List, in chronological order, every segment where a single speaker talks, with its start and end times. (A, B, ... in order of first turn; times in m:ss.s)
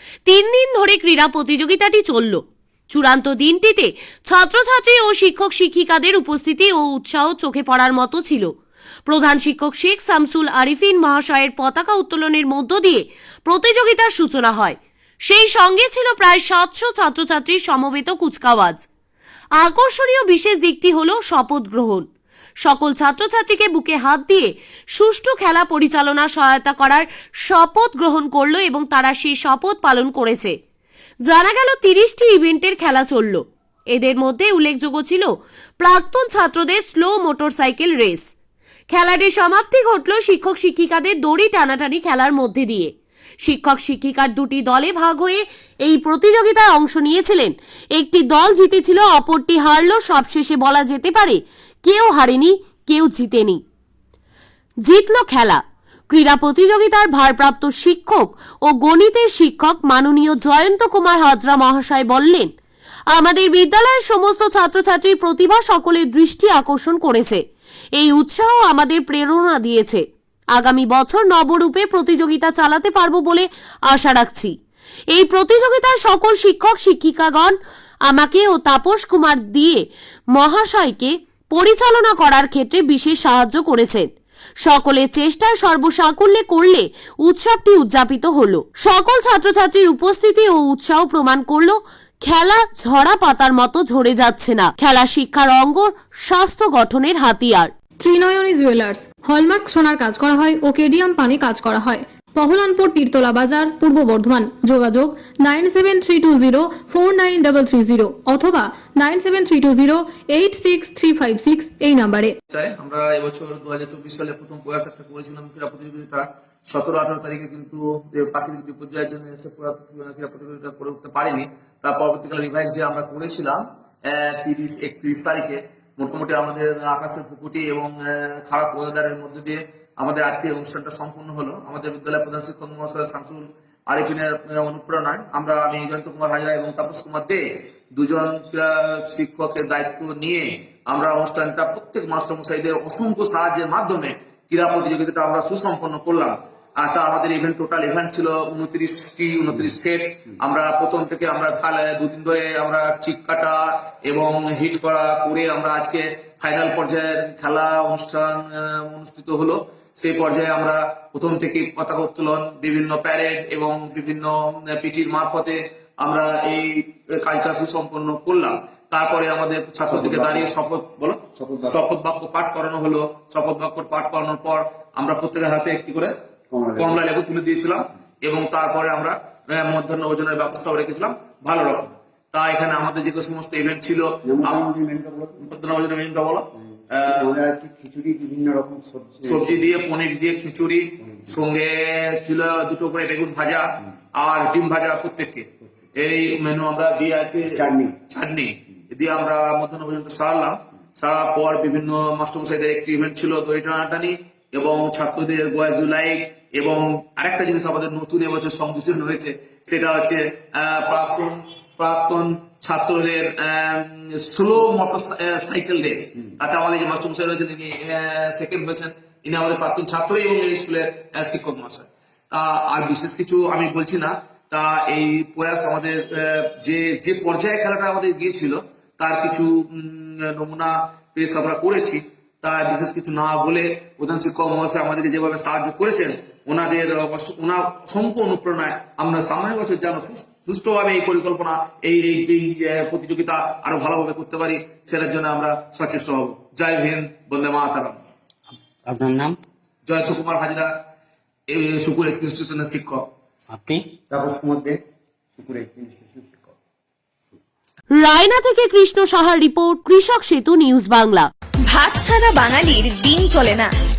0:00.3-0:08.5 A
0:09.1-0:18.8 A
0:19.6-0:22.0 A
0:22.6-0:30.5 A
0:31.3-0:38.3 A
0:38.9-0:53.6 A
0:54.8-1:02.5 A
1:03.1-1:07.4 A
1:07.9-1:14.5 A
1:15.1-1:24.1 A
1:24.6-1:37.7 A
1:38.0-1:52.3 B
1:52.5-2:17.4 C
2:17.9-2:56.1 C
2:49.9-2:50.5 D
2:51.4-2:51.8 D
2:56.5-2:57.0 D
2:56.8-3:04.6 C
3:04.2-3:05.4 D
3:05.4-3:07.3 C
3:07.0-3:09.7 D
3:09.2-4:08.0 C
3:11.0-3:11.3 D
3:17.5-3:17.9 D
4:09.8-4:10.7 C
4:11.5-4:13.0 C
4:14.1-4:14.8 D
4:15.4-4:16.5 D
4:18.0-4:21.3 A
4:21.7-4:23.7 E